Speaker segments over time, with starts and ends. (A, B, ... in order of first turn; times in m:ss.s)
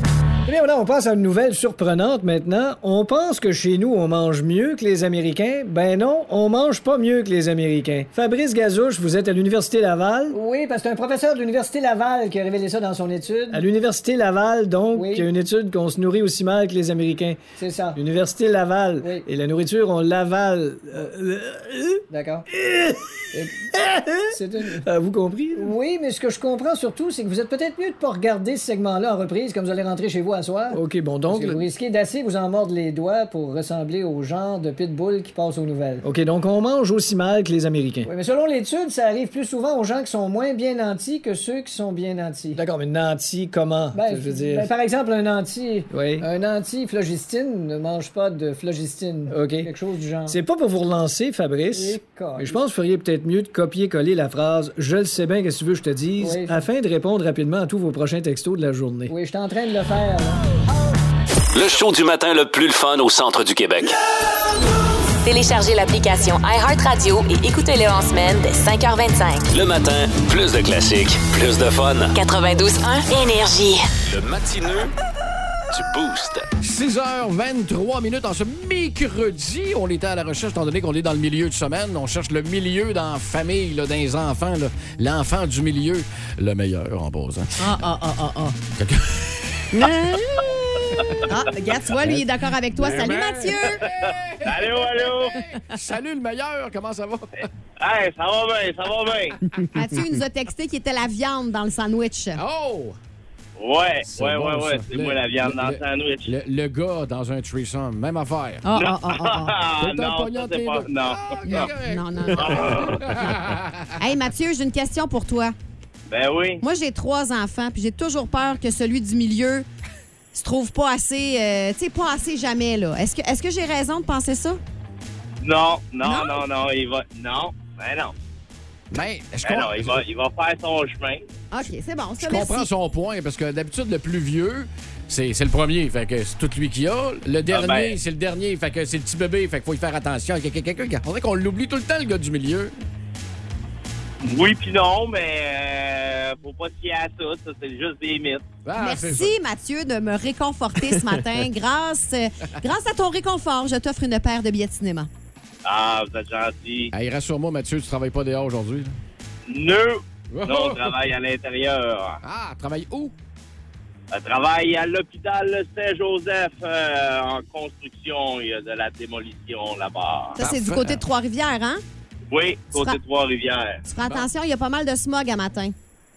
0:00.5-0:10.4 A
0:10.3-0:13.6 B
0:13.5-0:17.4 A
0:14.9-0:15.3 B
0:17.6-0:18.0 B
0:17.9-0:22.0 A
0:19.0-0:19.3 B
0:22.1-0:22.5 B
0:22.6-0:23.0 A
0:23.3-0:23.8 B
0:23.7-0:25.8 A
0:24.3-0:24.9 B
0:25.6-0:36.0 B
0:30.7-0:31.6 A
0:36.0-0:38.1 A
0:38.0-0:42.6 B
0:42.6-0:44.7 A
0:43.9-0:50.4 B
0:45.9-0:46.3 A
0:49.3-0:49.7 A
0:50.3-0:59.1 A
0:51.7-0:52.6 B
0:56.2-0:56.6 B
0:59.1-1:00.4 B
1:01.5-1:04.0 C
1:05.2-1:09.5 D
1:09.5-1:12.2 C
1:12.2-1:13.8 D
1:14.1-1:14.9 C
1:15.7-1:16.5 C
1:16.6-1:27.6 E
1:27.6-1:28.6 F
1:28.8-1:29.8 E
1:29.7-1:33.8 F
1:31.0-1:31.3 E
1:32.0-1:37.5 E
1:34.4-1:35.4 G
1:37.4-1:39.4 G
1:39.7-1:42.4 F
1:42.4-1:43.0 E
1:43.6-1:46.3 G
1:44.1-1:48.6 E
1:48.6-1:49.6 F
1:48.7-1:51.7 G
1:49.8-1:54.0 E
1:51.5-1:52.9 F
1:52.4-1:53.1 G
1:54.0-1:55.6 F
1:56.1-1:56.6 G
1:56.6-1:59.7 F
2:00.3-2:04.6 F
2:05.4-2:08.1 G
2:06.0-2:06.4 F
2:08.9-2:10.0 E
2:09.4-2:11.2 G
2:11.5-2:12.7 F
2:12.2-2:22.7 E
2:17.5-2:18.0 G
2:24.2-2:28.4 G
2:28.6-2:29.4 E
2:28.8-2:35.1 F
2:35.6-2:36.9 G
2:36.9-2:38.9 E
2:39.5-2:42.2 G
2:40.3-2:41.0 E
2:42.2-2:43.1 E
2:44.1-2:50.4 G
2:50.4-2:51.0 E
2:50.4-2:51.8 F
2:52.3-2:53.8 G
2:53.9-2:55.8 F